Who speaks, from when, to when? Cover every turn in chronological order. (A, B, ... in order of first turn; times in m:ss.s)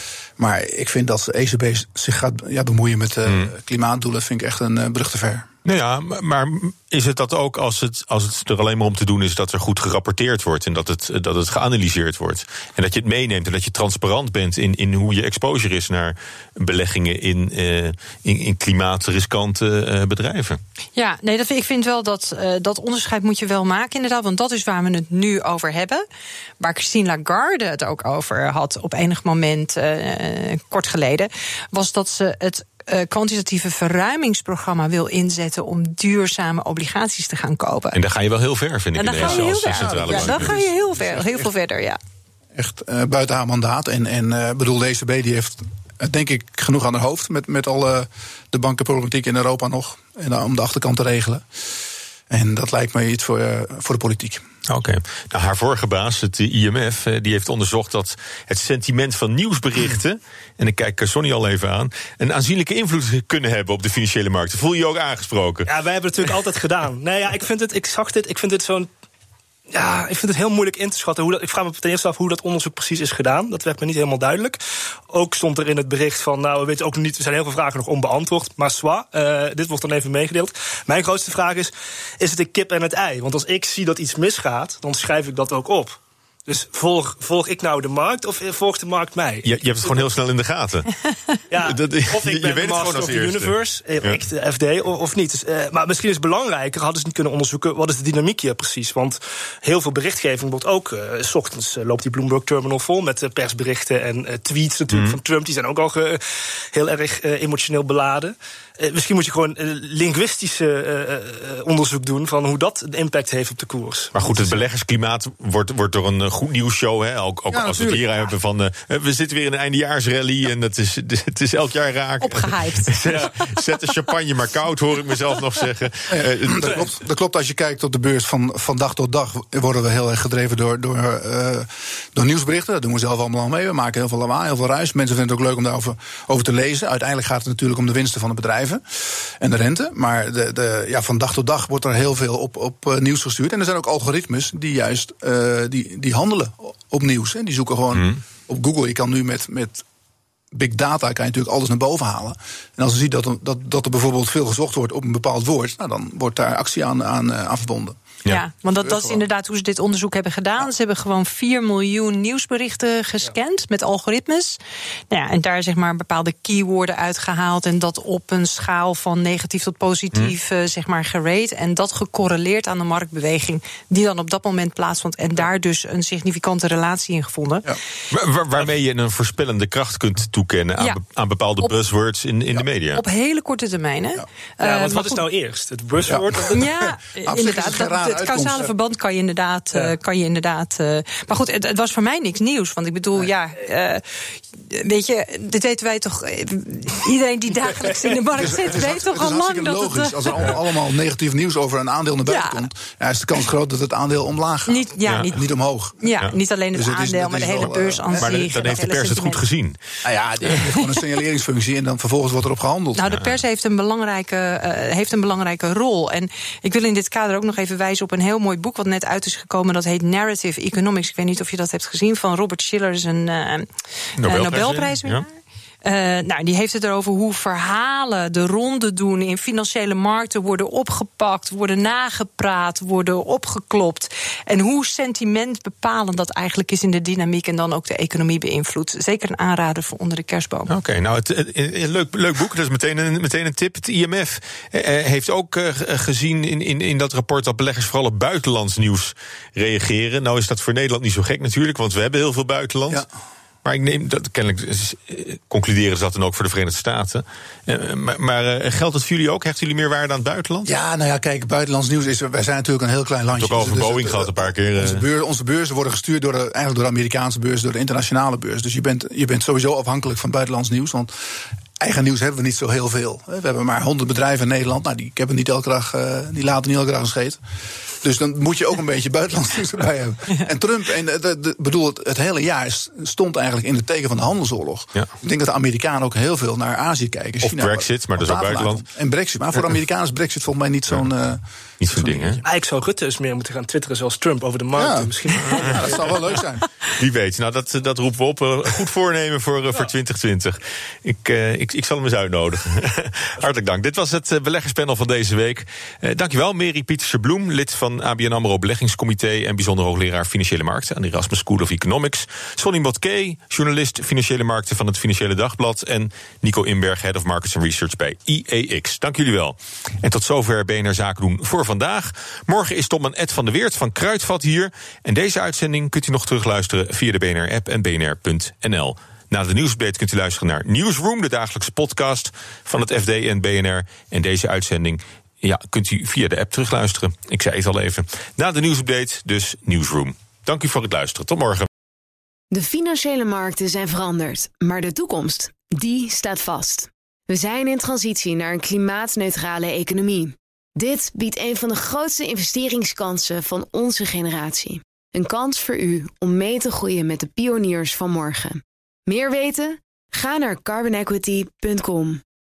0:00.4-0:05.5 A
0:05.6-0:20.6 B
0:21.0-0:26.0 C
0:26.6-0:38.0 C
0:37.9-0:40.6 B
0:39.0-0:42.0 C
0:39.2-0:41.2 A
0:42.6-0:51.4 A
0:52.3-0:54.4 A
0:54.7-1:05.7 B
1:05.6-1:08.9 D
1:09.7-1:14.6 D
1:15.1-1:30.1 D
1:29.4-1:30.9 B
1:31.5-1:46.2 D
1:31.6-1:34.2 B
1:44.9-1:45.2 B
1:46.7-1:54.6 D
1:54.1-2:06.9 B
1:57.5-1:58.1 A
2:02.2-2:03.6 C
2:06.1-2:29.8 A
2:27.9-2:28.2 B
2:30.5-2:38.0 A
2:38.2-2:44.6 C
2:38.7-2:39.2 A
2:45.1-2:57.7 C
2:58.1-3:03.0 B
3:02.9-3:05.2 C
3:04.6-3:06.6 D
3:06.1-3:06.5 A
3:06.5-3:20.5 C
3:07.2-3:08.7 A
3:18.3-3:28.5 A
3:22.2-3:22.6 C
3:24.7-3:29.4 C
3:28.1-3:29.8 B
3:30.0-3:33.0 A
3:30.5-3:31.0 C
3:32.9-3:45.3 C
3:33.1-3:33.4 B
3:44.2-3:45.2 B
3:45.8-4:00.7 C
4:00.7-4:13.0 B
4:13.6-4:20.7 B
4:20.6-4:31.1 A
4:23.4-4:25.0 B
4:31.8-4:37.4 A
4:38.0-4:52.4 A
4:47.4-4:48.8 B
4:51.8-4:52.4 B
4:52.4-4:56.2 D
4:54.8-4:56.6 A
4:55.4-4:55.9 B
4:57.0-5:41.7 B
5:42.5-6:02.2 E